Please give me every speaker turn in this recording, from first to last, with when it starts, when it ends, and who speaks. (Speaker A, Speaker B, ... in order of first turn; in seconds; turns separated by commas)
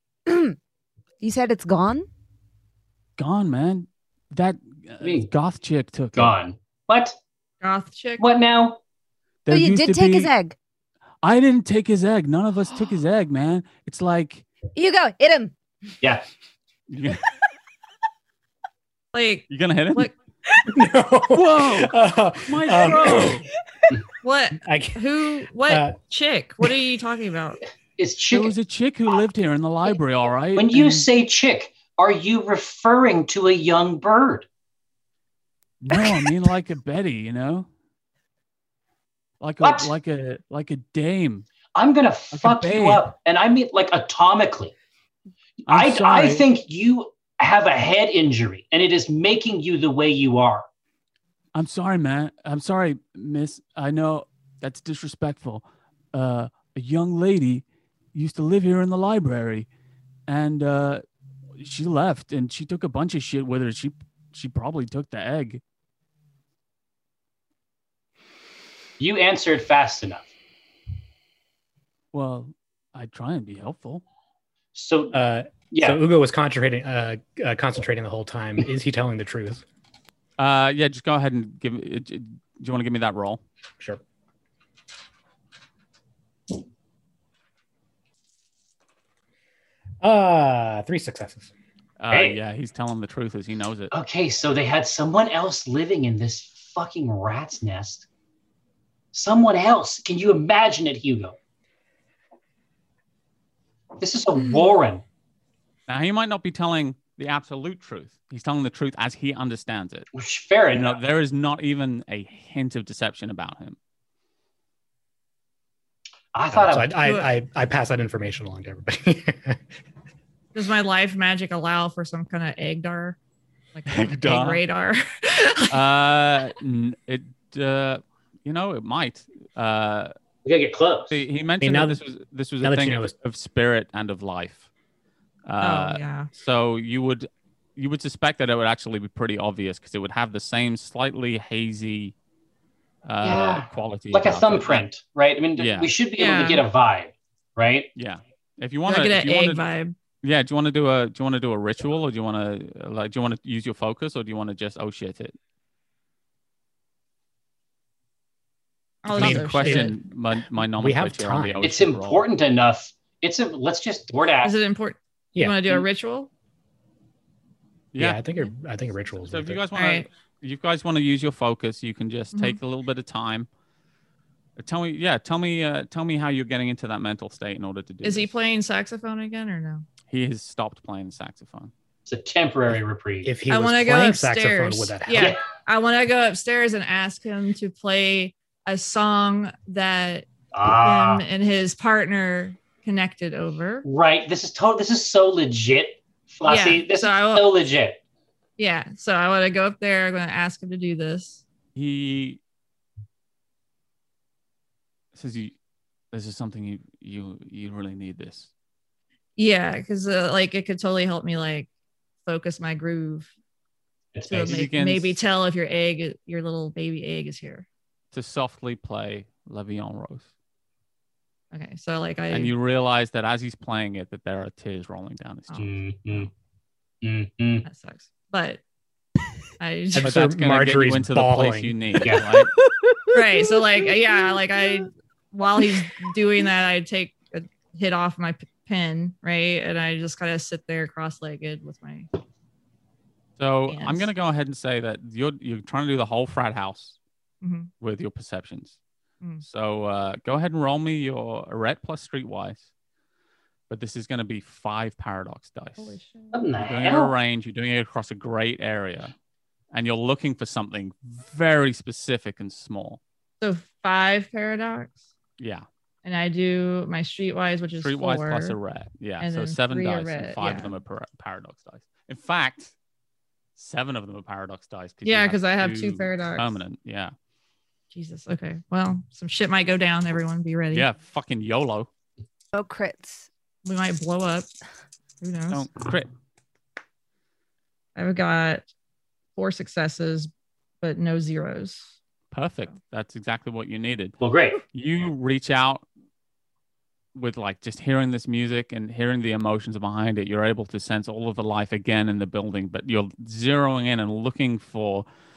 Speaker A: 0.3-0.6, Speaker A: 1.2-2.1, Speaker B: 3.2-6.3, Speaker C: 5.0-5.3, Speaker C: 6.2-7.2, Speaker D: 7.6-8.2, Speaker C: 8.2-8.8, Speaker B: 9.4-10.3, Speaker A: 9.5-10.6, Speaker B: 11.2-14.4, Speaker A: 14.8-15.6, Speaker B: 16.9-17.2, Speaker D: 19.1-20.1, Speaker B: 19.5-20.1, Speaker E: 20.7-23.4, Speaker B: 21.3-23.5, Speaker D: 24.2-27.6, Speaker E: 24.6-25.1, Speaker E: 25.7-26.0, Speaker C: 28.0-28.5, Speaker B: 28.3-31.1, Speaker C: 30.6-34.5, Speaker B: 35.8-37.7, Speaker B: 39.4-41.5, Speaker C: 39.6-39.9, Speaker C: 41.8-44.7, Speaker B: 42.3-43.1, Speaker C: 45.6-50.7, Speaker B: 45.7-46.5, Speaker B: 51.5-59.7, Speaker B: 60.3-61.0, Speaker B: 61.6-65.6, Speaker C: 69.0-70.3, Speaker B: 72.1-74.0, Speaker C: 74.7-75.1, Speaker E: 75.1-79.6, Speaker C: 75.7-76.0, Speaker B: 80.4-83.4, Speaker E: 90.0-91.5, Speaker B: 92.0-93.9, Speaker C: 92.1-92.4, Speaker C: 93.9-98.1, Speaker C: 99.1-101.4, Speaker C: 104.0-105.0, Speaker B: 105.9-110.1, Speaker C: 110.1-111.0, Speaker B: 110.7-113.8, Speaker C: 116.3-117.0, Speaker E: 116.5-119.6, Speaker D: 117.0-117.3, Speaker D: 120.5-123.2, Speaker D: 123.7-125.8, Speaker B: 123.9-124.6, Speaker B: 125.7-130.1, Speaker C: 130.4-131.2, Speaker B: 131.1-134.7, Speaker E: 131.6-132.0, Speaker E: 132.6-133.1, Speaker B: 135.5-142.2, Speaker D: 135.6-136.3, Speaker B: 143.1-144.8, Speaker C: 143.2-147.9, Speaker B: 145.6-145.9, Speaker D: 146.2-146.6, Speaker B: 147.9-149.6, Speaker D: 148.9-149.9, Speaker B: 150.2-155.4, Speaker D: 159.0-160.0, Speaker B: 159.1-162.2, Speaker E: 159.1-160.0, Speaker E: 160.6-161.6, Speaker C: 161.6-164.6, Speaker D: 164.4-166.3, Speaker E: 165.3-165.8, Speaker B: 167.9-168.2, Speaker E: 168.0-169.6, Speaker B: 169.2-173.5, Speaker D: 169.8-170.1, Speaker D: 172.3-172.6, Speaker B: 174.6-178.3, Speaker D: 178.0-179.9, Speaker B: 180.1-181.7, Speaker C: 182.1-183.3, Speaker E: 183.2-185.4, Speaker D: 183.5-190.3, Speaker C: 190.5-191.2, Speaker D: 190.8-193.9, Speaker C: 193.8-198.0, Speaker D: 196.4-197.5, Speaker D: 198.6-201.4, Speaker B: 201.8-202.4, Speaker B: 205.1-205.6, Speaker B: 206.1-208.5, Speaker D: 209.4-211.7, Speaker D: 212.3-213.3, Speaker C: 214.1-214.6, Speaker D: 214.3-217.7, Speaker B: 214.4-215.2, Speaker B: 218.1-220.3, Speaker D: 221.5-222.5, Speaker B: 222.3-226.3, Speaker C: 225.6-226.3, Speaker C: 227.0-227.7, Speaker D: 227.6-228.6, Speaker D: 229.6-230.1, Speaker E: 229.9-231.8, Speaker B: 230.0-232.5, Speaker A: 232.7-233.6, Speaker D: 233.1-242.1, Speaker A: 234.1-234.3, Speaker B: 243.4-247.0, Speaker D: 243.7-244.1, Speaker D: 247.4-247.7, Speaker B: 247.8-248.8, Speaker B: 249.4-252.7, Speaker B: 253.7-256.0, Speaker D: 255.8-256.4, Speaker C: 256.3-257.1, Speaker B: 256.6-259.1, Speaker B: 259.7-263.0, Speaker D: 263.4-265.0, Speaker B: 265.4-265.7, Speaker D: 266.0-268.6, Speaker B: 267.8-272.7, Speaker D: 269.2-270.7, Speaker B: 273.6-277.1, Speaker D: 275.1-276.5, Speaker D: 277.9-280.9, Speaker B: 280.7-281.9, Speaker A: 282.5-283.3, Speaker D: 283.6-284.5, Speaker D: 285.2-285.7, Speaker B: 285.5-286.1, Speaker D: 288.0-288.7, Speaker D: 289.4-291.9, Speaker B: 292.3-294.2, Speaker C: 294.2-294.6, Speaker B: 294.7-295.8, Speaker B: 297.1-305.1